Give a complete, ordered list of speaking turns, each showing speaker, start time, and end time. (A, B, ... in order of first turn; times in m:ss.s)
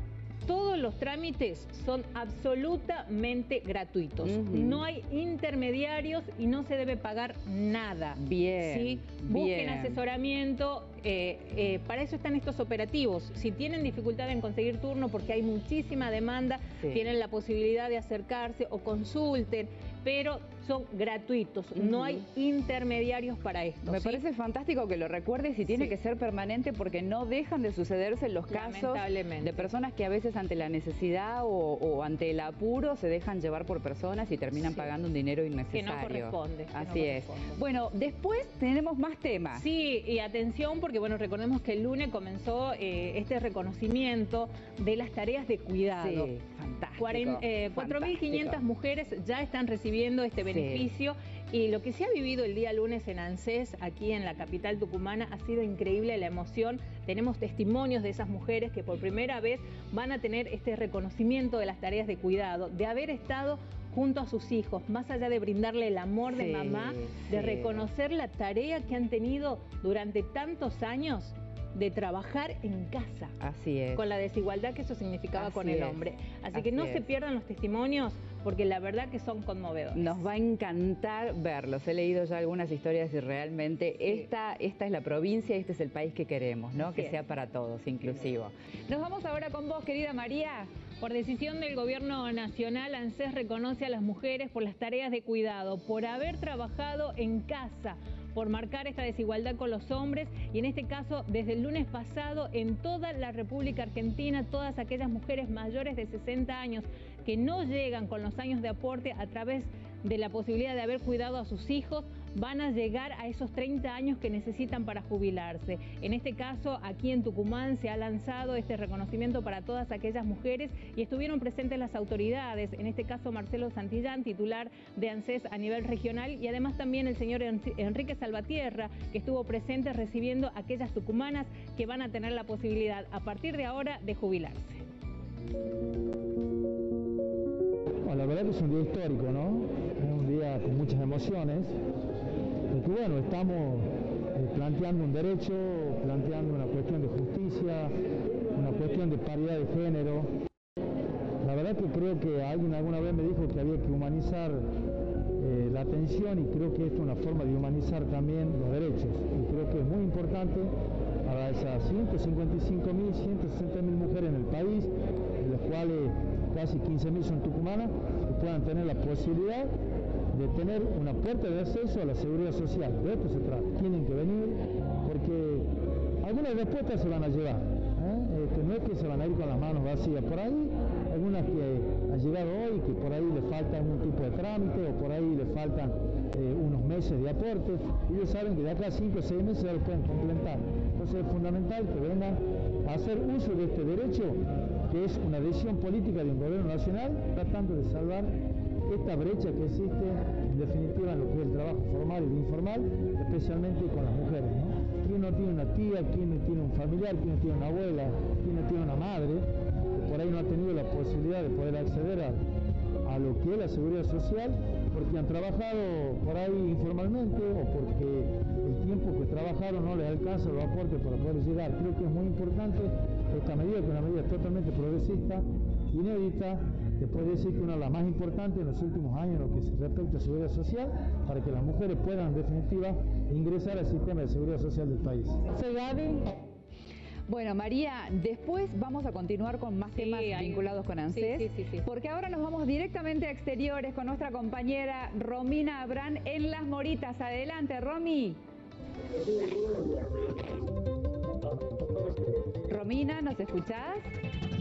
0:00.5-0:24.2 A
0:04.2-0:04.8 B
0:08.2-0:10.0 B
0:16.8-0:17.1 B
0:21.8-0:22.2 B
0:23.8-0:39.7 B
0:25.7-0:26.0 A
0:28.5-0:29.7 A
0:34.6-0:34.9 A
0:35.7-0:37.6 A
0:39.5-0:46.3 A
0:46.0-0:48.6 B
0:47.0-1:13.4 A
0:50.4-0:50.9 B
1:06.3-1:07.9 B
1:13.4-1:14.1 B
1:13.9-1:20.2 A
1:15.4-1:17.1 B
1:20.0-1:30.7 B
1:26.8-1:27.2 A
1:31.0-2:14.9 A
2:18.0-2:21.7 C
2:22.7-2:27.9 C
2:28.5-2:30.3 C
2:31.4-2:34.7 C
2:35.4-2:40.7 C
2:41.2-2:49.7 C
2:50.3-2:55.7 C
2:56.2-3:32.4 C
3:33.0-3:56.3 C
3:57.3-4:08.4 B
3:59.9-4:01.9 A
4:12.7-4:14.1 B